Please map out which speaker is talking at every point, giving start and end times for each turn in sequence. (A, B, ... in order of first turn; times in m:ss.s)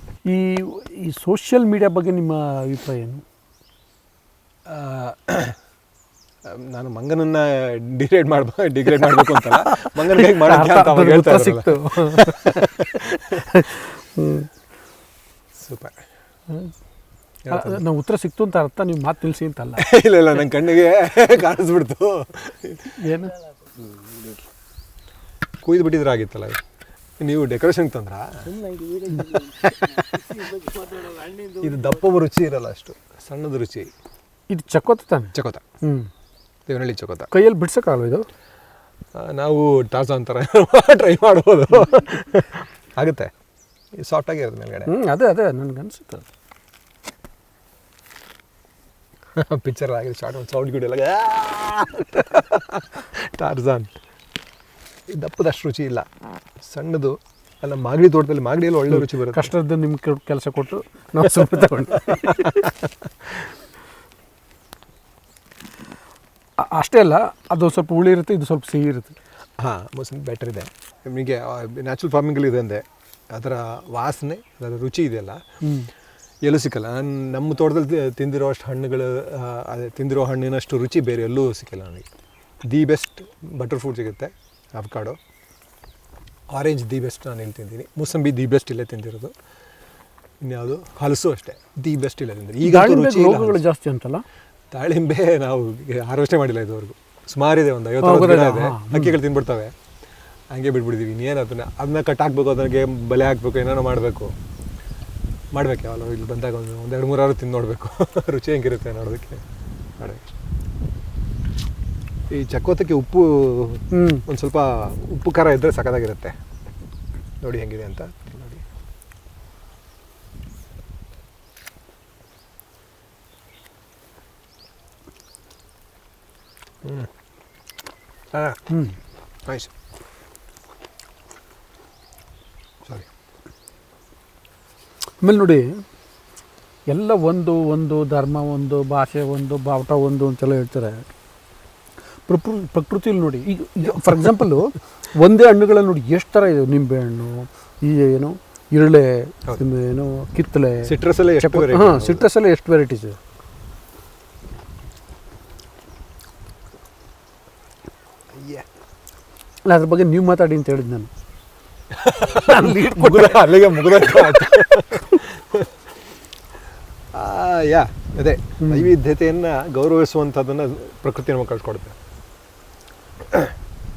0:00.3-0:03.2 A
0:04.7-0:05.6 B
0:06.5-0:13.4 B
0:10.2-0:14.5 A
0:15.6-0:16.0 B
0:17.5-0:17.8 B
0:17.5-0:19.8 A
0:19.8-0:23.0 B
0:23.0-0:23.4 A
0:25.6-0:26.6 B
0:27.2-0:28.5 B
0:28.6-0:29.0 A
0:29.1-0:33.9 B
0:34.5-0:36.1 A
0:35.3-0:35.6 B
0:36.7-0:37.3 B
0:37.3-0:38.3 A
0:39.2-0:43.3 B
0:44.1-0:44.9 B
0:44.9-0:46.2 A
0:49.4-0:53.9 B
0:55.1-0:56.0 B
0:56.6-0:59.5 B
0:58.9-1:02.6 A
1:02.1-1:02.9 B
1:06.6-1:09.2 A
1:09.6-1:15.4 B
1:16.4-1:22.0 B
1:22.7-1:25.2 B
1:26.5-1:29.3 B
1:30.4-1:33.6 B
1:32.6-1:34.2 A
1:34.7-1:39.7 B
1:38.0-1:39.2 A
1:40.5-1:44.3 B
1:45.5-1:49.4 B
1:50.0-1:50.3 B
1:52.3-1:56.4 B
1:53.9-1:54.2 A
1:57.4-1:58.6 B
2:08.3-2:08.6 B
2:08.7-2:09.0 A
2:15.2-2:15.8 A
2:16.9-2:21.1 A
2:22.3-2:33.2 A
2:23.8-2:24.4 B
2:30.8-2:32.2 B
2:38.4-2:38.6 B
2:39.7-2:41.1 A
2:41.9-2:45.7 B
2:42.4-2:44.4 A
2:47.1-2:52.0 B
2:48.6-2:48.9 A